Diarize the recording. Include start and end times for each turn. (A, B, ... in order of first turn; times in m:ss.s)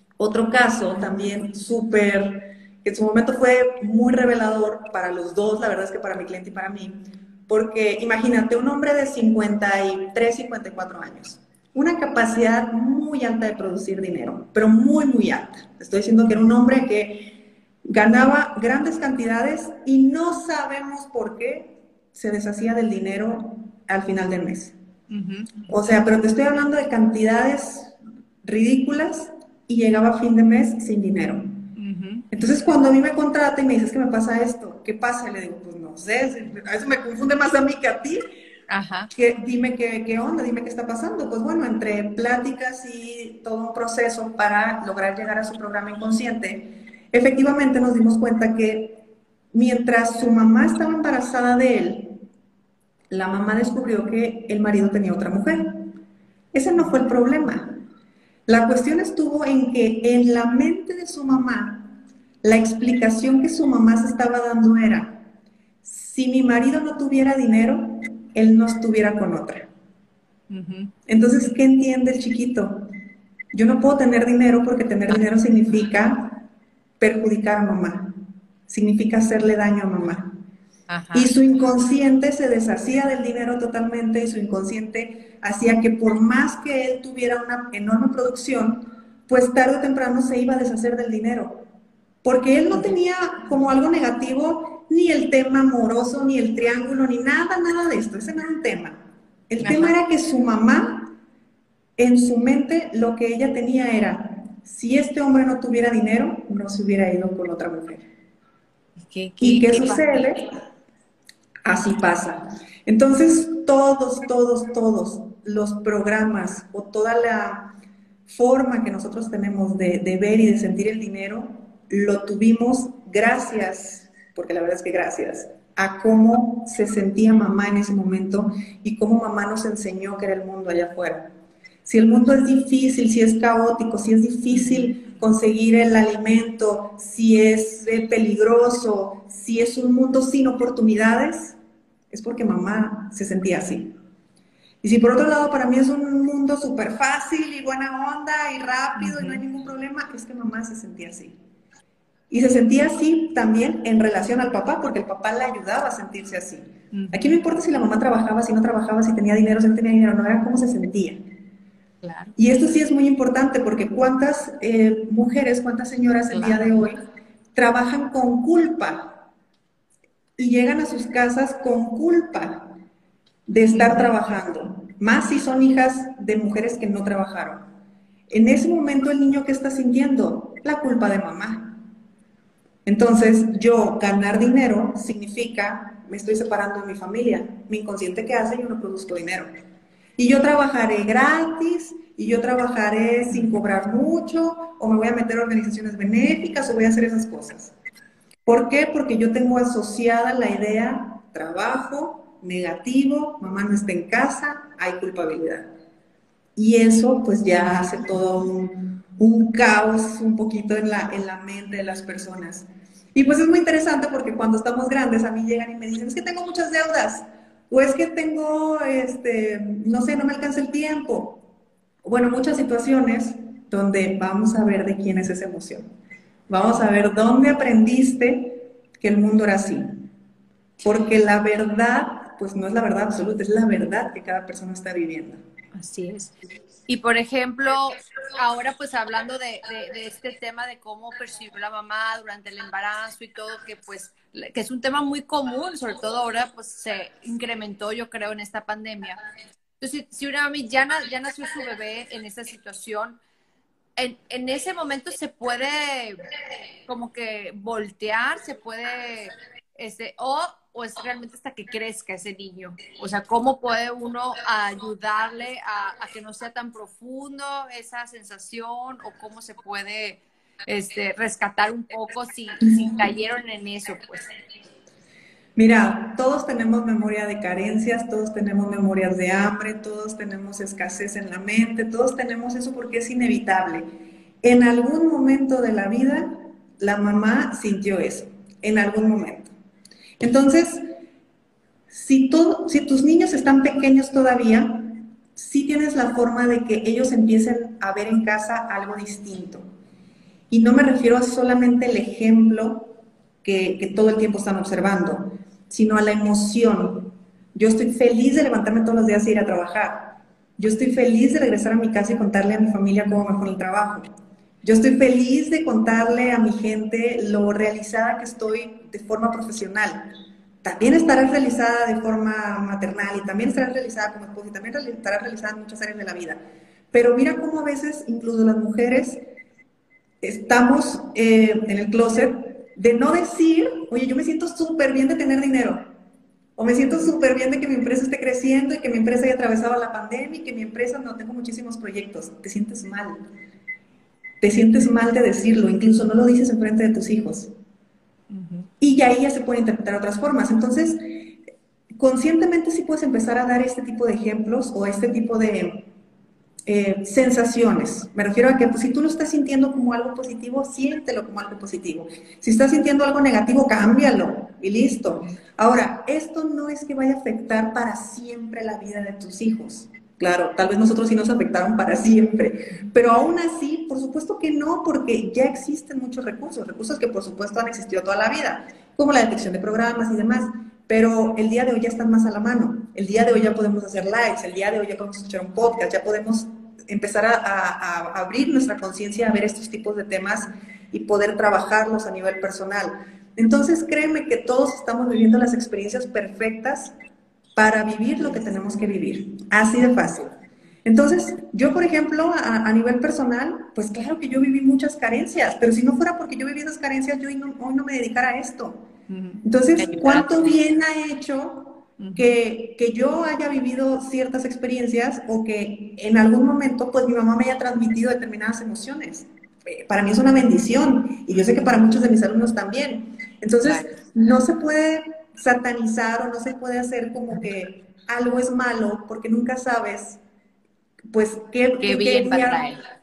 0:00.2-0:24.8 A
0:25.1-0:25.7 B
0:25.7-0:31.7 A
0:31.8-0:32.3 B
0:32.3-0:38.3 A
0:38.7-0:39.1 B
0:39.1-0:49.0 A
0:49.5-0:52.2 A
0:53.1-0:55.9 A
0:56.5-0:57.8 A
0:58.5-1:05.2 A
1:05.8-1:09.7 A
1:10.5-1:10.9 B
1:11.1-1:12.9 A
1:13.5-1:16.5 A
1:17.0-1:18.2 A
1:18.7-1:20.3 A
1:20.9-1:21.3 B
1:21.1-1:31.6 A
1:32.2-1:41.1 A
1:39.6-1:39.9 B
1:42.0-1:48.0 A
1:49.0-1:50.3 B
1:49.4-1:50.5 A
1:51.6-1:57.7 A
1:58.3-2:11.3 A
2:11.8-2:21.6 A
2:14.5-2:14.9 B
2:22.1-2:23.9 A
2:24.8-2:31.3 A
2:29.0-2:29.4 B
2:32.3-2:41.2 A
2:36.9-2:37.4 B
2:42.0-2:42.3 B
2:42.4-2:47.0 A
2:46.3-2:46.8 B
2:47.6-2:49.2 A
2:50.4-2:52.8 A
2:53.5-2:57.6 A
2:53.7-2:54.1 B
2:58.3-3:01.8 A
3:02.9-3:09.5 A
3:10.2-3:17.7 A
3:18.5-3:25.7 A
3:26.6-3:41.4 A
3:42.0-3:45.9 A
3:46.5-3:50.0 A
3:50.8-3:55.4 A
3:55.8-3:56.3 B
3:56.9-4:09.2 B
4:09.8-4:13.2 B
4:14.0-4:16.2 B
4:16.9-4:34.3 B
4:32.6-4:33.0 A
4:35.6-4:43.9 A
4:44.4-4:49.5 A
4:50.2-4:50.9 A
4:51.9-4:59.6 A
5:00.5-5:14.1 A
5:14.6-5:20.1 A
5:20.6-5:26.4 A
5:26.9-5:29.2 A
5:30.2-5:35.9 A
5:36.6-5:43.2 A
5:44.4-5:47.5 A
5:48.3-5:48.7 B
5:48.8-5:51.4 A
5:52.0-5:55.9 A
5:56.7-6:36.9 A
6:37.6-6:40.3 A
6:40.8-6:48.8 A
6:49.1-6:50.6 B
6:49.4-7:10.2 A
6:52.0-6:52.3 B
7:01.4-7:01.7 B
7:03.6-7:04.0 B
7:11.1-7:12.6 A
7:11.8-7:12.8 B